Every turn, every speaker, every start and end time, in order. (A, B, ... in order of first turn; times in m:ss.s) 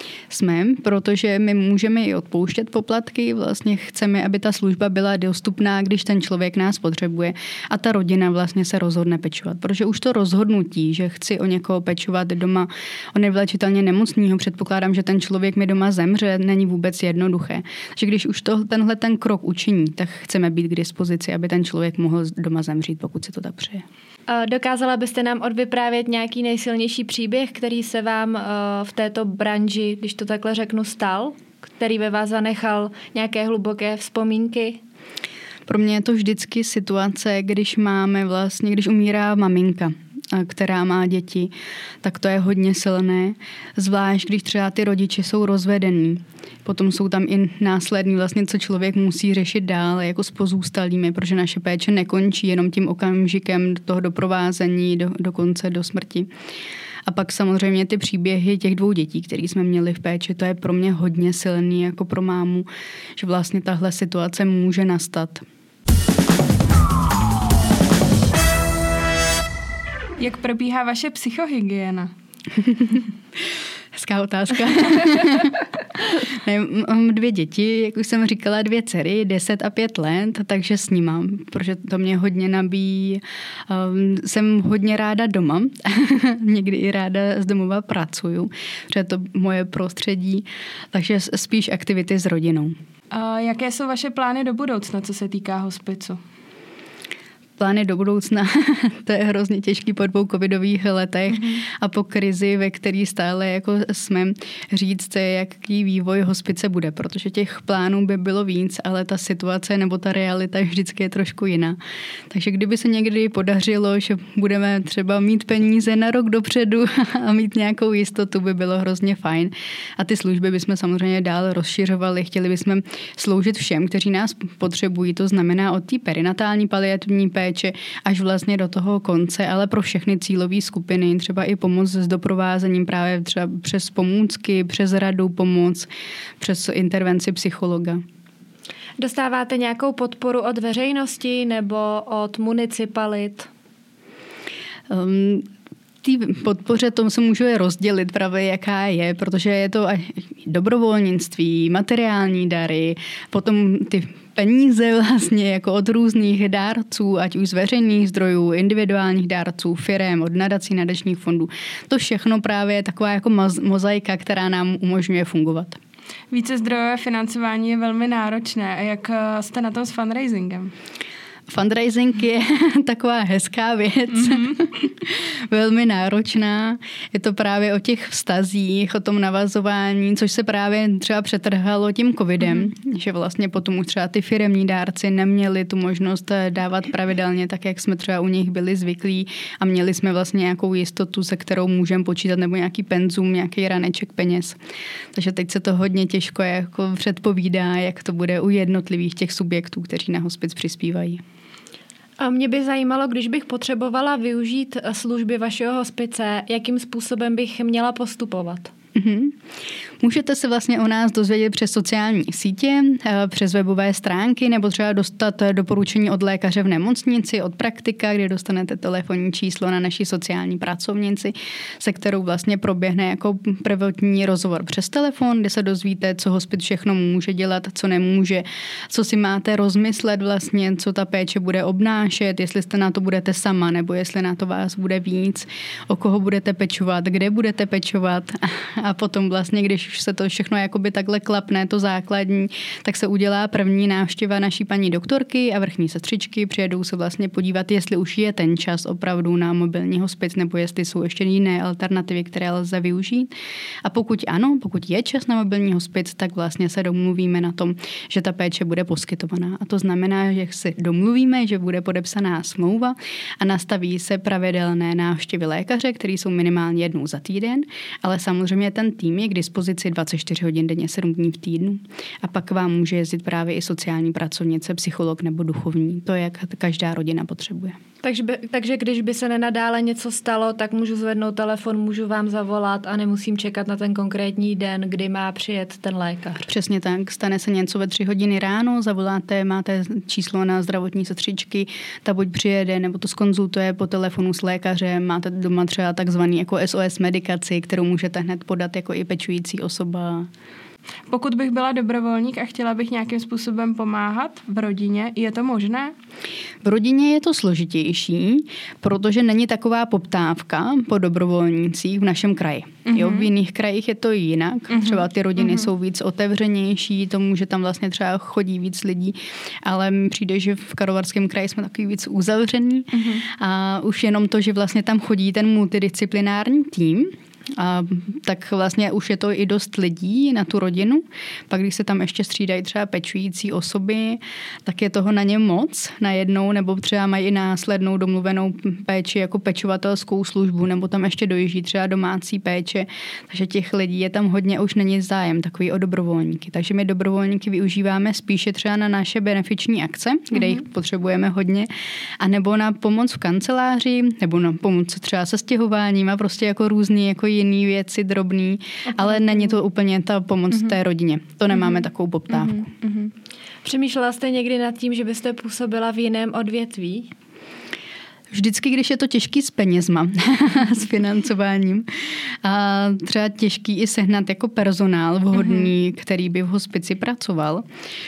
0:00.3-0:23.8 A
0:24.3-0:34.8 B
0:35.7-0:56.3 A
0:57.0-1:05.4 A
1:10.2-1:12.1 C
1:12.5-1:13.0 A
1:13.9-1:32.8 A
1:33.1-1:36.2 C
1:37.6-1:51.8 A
1:52.3-2:15.9 A
2:16.4-2:18.0 A
2:19.0-2:23.5 B
2:24.9-2:25.5 A
2:26.0-2:45.8 A
2:46.3-2:50.7 C
2:51.5-3:14.6 A
2:54.1-2:54.6 C
3:15.1-3:21.2 A
3:22.2-3:28.7 B
3:28.9-3:29.4 A
3:30.0-4:13.3 A
4:13.8-4:37.8 A
4:38.0-4:46.5 B
4:46.5-5:00.3 A
5:01.1-5:05.9 C
5:06.6-5:51.7 A
5:12.8-5:13.3 C
5:14.7-5:15.7 C
5:22.9-5:23.2 C
5:52.2-6:02.7 A
6:03.6-6:07.1 B
6:08.3-6:17.6 A